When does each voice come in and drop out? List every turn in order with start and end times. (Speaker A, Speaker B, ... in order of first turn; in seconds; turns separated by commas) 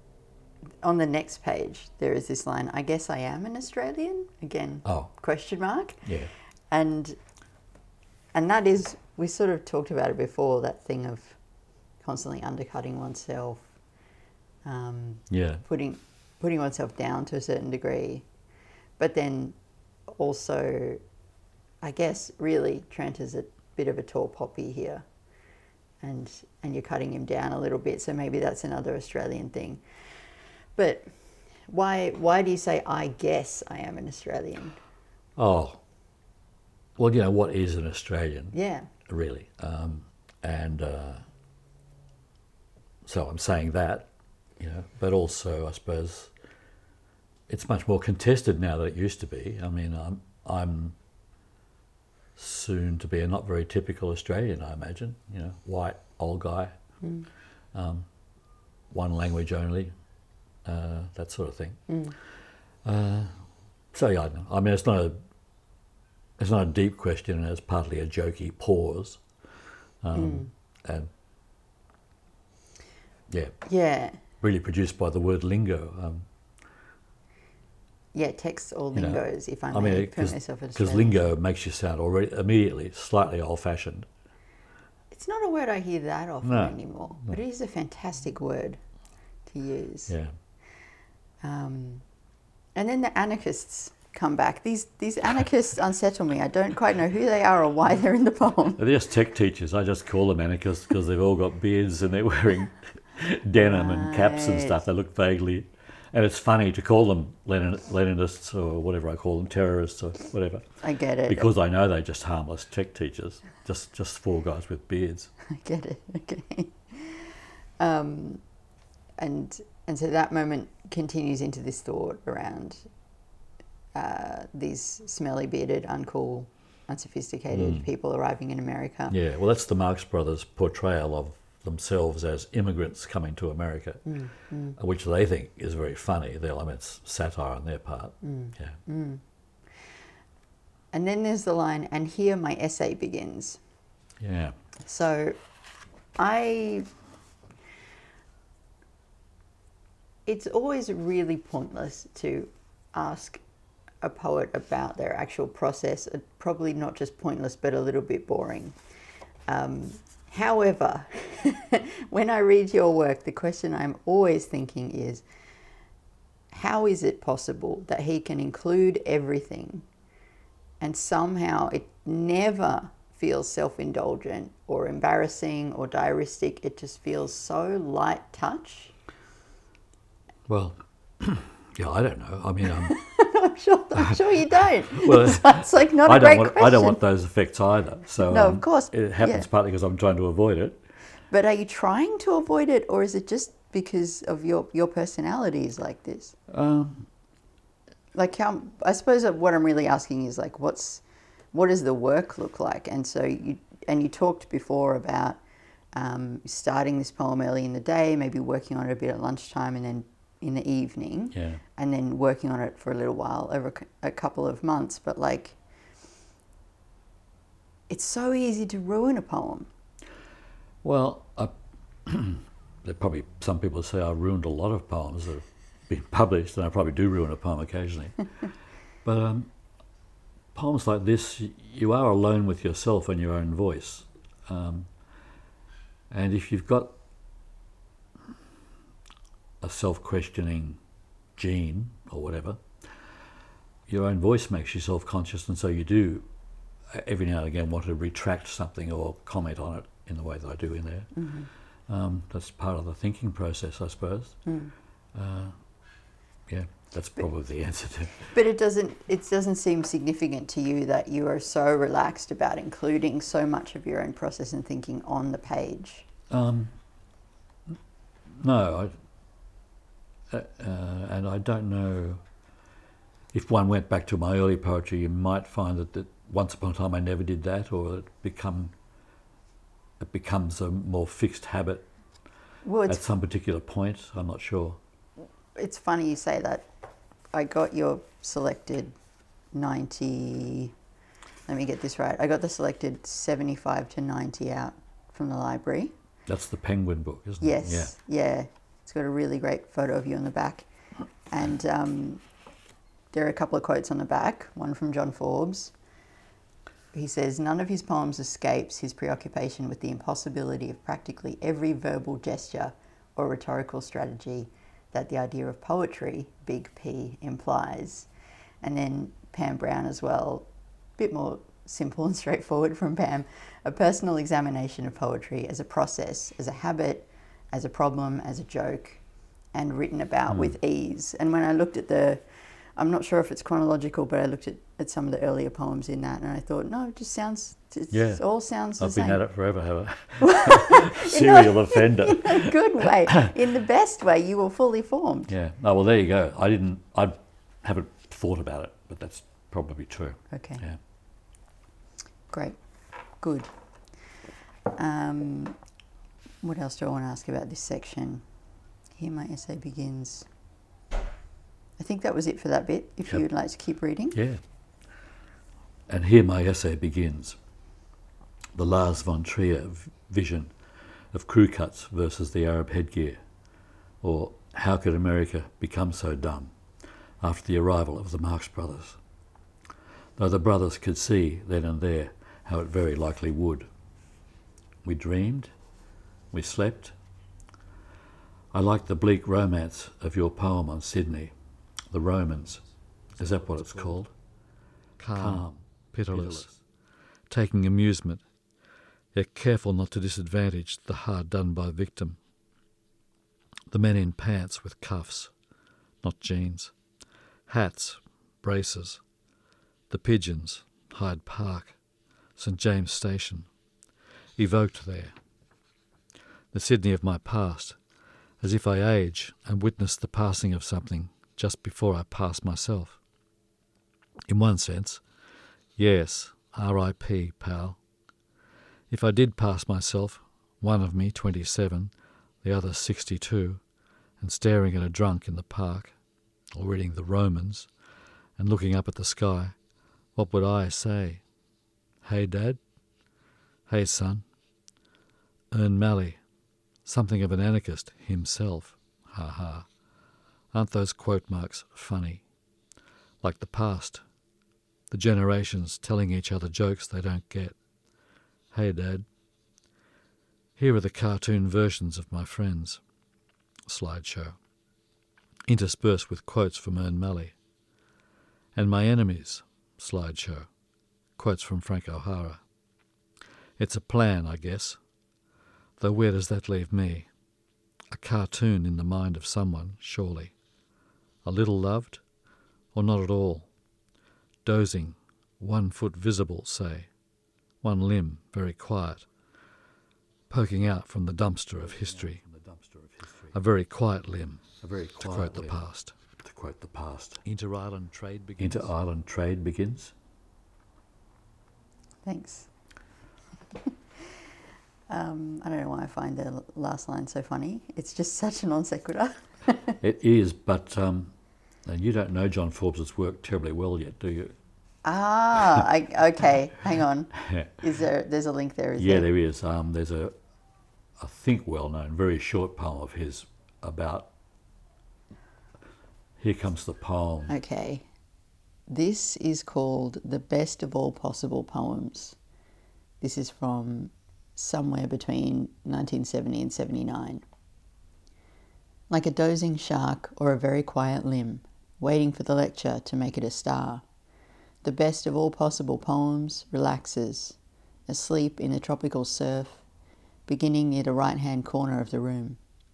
Speaker A: 0.8-7.2, Speaker B: 4.8-5.1, Speaker B: 6.0-6.3, Speaker A: 8.3-11.4, Speaker A: 12.0-13.8, Speaker A: 14.6-18.3, Speaker B: 15.3-15.6, Speaker A: 19.0-19.6, Speaker A: 20.1-21.0, Speaker A: 21.8-25.0, Speaker A: 26.0-29.8, Speaker A: 30.8-31.1, Speaker A: 31.7-34.8, Speaker B: 35.4-35.8, Speaker B: 37.0-38.5, Speaker A: 38.5-38.9, Speaker B: 39.1-41.2, Speaker B: 43.0-46.3, Speaker B: 47.5-51.0, Speaker B: 52.4-56.7, Speaker A: 57.0-57.3, Speaker B: 57.7-58.1, Speaker B: 58.9-59.9, Speaker B: 60.6-61.8, Speaker A: 61.9-62.1, Speaker B: 62.8-63.4, Speaker B: 63.9-65.2, Speaker B: 66.4-69.2, Speaker B: 70.0-71.1, Speaker A: 70.1-70.5, Speaker B: 73.3-73.5, Speaker A: 73.7-74.2, Speaker B: 74.4-76.3, Speaker A: 78.1-81.2, Speaker B: 78.9-84.1, Speaker A: 85.1-88.8, Speaker B: 86.4-87.4, Speaker A: 89.5-90.1, Speaker B: 90.1-90.3, Speaker A: 91.4-92.0, Speaker A: 92.7-98.8, Speaker B: 98.8-110.7, Speaker A: 103.5-104.8, Speaker A: 110.8-111.5, Speaker B: 111.2-115.3, Speaker A: 115.5-118.4, Speaker A: 119.2-122.9, Speaker A: 123.9-129.1, Speaker B: 127.5-127.9, Speaker B: 129.1-134.1, Speaker A: 134.1-134.8, Speaker B: 134.8-138.8, Speaker A: 138.2-139.2, Speaker A: 140.9-143.6, Speaker B: 144.2-144.5, Speaker A: 144.8-145.4, Speaker A: 146.2-146.9, Speaker A: 150.2-153.4, Speaker A: 154.0-158.8, Speaker A: 159.5-165.2, Speaker A: 166.5-169.8, Speaker A: 170.8-178.9, Speaker B: 180.5-182.9, Speaker A: 182.7-187.0, Speaker B: 184.1-190.8, Speaker A: 188.3-189.5, Speaker A: 191.3-196.4, Speaker B: 196.5-197.1, Speaker A: 198.1-205.4, Speaker A: 205.9-215.6, Speaker B: 211.3-211.6, Speaker A: 217.9-219.7, Speaker B: 220.8-221.5, Speaker B: 222.1-228.2, Speaker B: 229.0-229.5, Speaker B: 230.5-234.9, Speaker B: 236.1-236.9, Speaker B: 239.6-240.8, Speaker B: 241.4-242.6, Speaker B: 243.9-246.3, Speaker B: 246.9-251.1, Speaker A: 251.1-251.5, Speaker B: 251.9-254.4, Speaker A: 254.4-254.7, Speaker B: 255.1-255.6, Speaker B: 256.5-258.3, Speaker A: 258.2-266.1, Speaker B: 266.3-266.8, Speaker B: 268.3-268.9, Speaker B: 270.3-272.2, Speaker B: 273.3-278.7, Speaker B: 280.0-281.9, Speaker A: 282.6-283.0, Speaker B: 282.9-284.8, Speaker A: 285.6-286.6, Speaker A: 287.3-288.9, Speaker A: 289.5-290.7, Speaker A: 291.5-295.9, Speaker B: 296.3-297.9, Speaker A: 297.4-300.7, Speaker A: 301.3-302.2, Speaker A: 303.1-305.7, Speaker A: 306.9-318.1, Speaker A: 318.6-329.0, Speaker A: 329.5-339.2, Speaker B: 330.3-330.6, Speaker B: 337.9-338.2, Speaker B: 338.8-342.6, Speaker A: 340.2-345.3, Speaker B: 345.3-350.8, Speaker A: 350.3-350.6, Speaker A: 352.3-352.6, Speaker A: 353.2-353.5, Speaker A: 354.7-355.6, Speaker A: 356.4-358.2, Speaker A: 358.9-360.3, Speaker A: 361.8-364.2, Speaker B: 364.1-364.4, Speaker B: 365.9-367.4, Speaker B: 368.5-370.5, Speaker B: 371.1-373.2, Speaker B: 374.0-376.5, Speaker B: 377.2-379.0, Speaker B: 380.2-383.7, Speaker B: 384.8-385.5, Speaker B: 386.3-386.9, Speaker B: 388.5-391.3, Speaker B: 391.9-392.6, Speaker B: 393.2-394.1, Speaker C: 395.0-396.5, Speaker B: 395.1-396.6, Speaker C: 397.3-398.2, Speaker C: 399.1-402.2, Speaker C: 403.7-405.3, Speaker C: 406.0-406.7, Speaker C: 407.5-409.0, Speaker C: 409.9-411.7, Speaker C: 412.4-413.4, Speaker C: 414.4-415.1, Speaker C: 416.5-417.8, Speaker C: 418.4-423.0, Speaker C: 424.3-425.0, Speaker C: 425.8-427.8, Speaker C: 428.9-431.9, Speaker C: 432.4-433.6, Speaker C: 434.2-435.9, Speaker C: 436.6-437.7, Speaker C: 438.4-439.5, Speaker C: 440.1-441.2, Speaker C: 442.1-442.6, Speaker C: 443.7-444.2, Speaker C: 445.5-446.2, Speaker C: 446.8-449.6, Speaker C: 450.5-452.2, Speaker C: 453.2-454.0, Speaker C: 454.9-457.6, Speaker C: 458.5-459.0, Speaker C: 460.6-462.8, Speaker C: 463.7-464.4, Speaker C: 465.5-467.3, Speaker C: 468.6-470.5, Speaker C: 471.2-472.4, Speaker C: 473.6-474.8, Speaker C: 475.8-477.1, Speaker C: 477.9-480.3, Speaker C: 481.3-482.0, Speaker C: 482.7-483.4, Speaker C: 484.4-486.9, Speaker C: 487.6-489.1, Speaker C: 490.3-492.2, Speaker B: 491.6-493.6, Speaker C: 493.4-494.5, Speaker B: 494.4-497.3, Speaker C: 495.0-495.9, Speaker C: 497.3-498.7, Speaker B: 498.4-499.9, Speaker A: 502.1-502.5, Speaker A: 504.9-509.8, Speaker B: 509.8-511.1, Speaker B: 511.6-514.3, Speaker A: 514.8-519.1, Speaker B: 517.2-517.5, Speaker B: 518.8-520.1, Speaker B: 521.0-524.1, Speaker B: 526.2-527.4, Speaker A: 527.3-527.8, Speaker A: 528.7-532.2, Speaker A: 533.0-537.2, Speaker A: 538.9-543.8, Speaker A: 544.6-547.4, Speaker A: 547.9-549.6, Speaker A: 550.3-552.4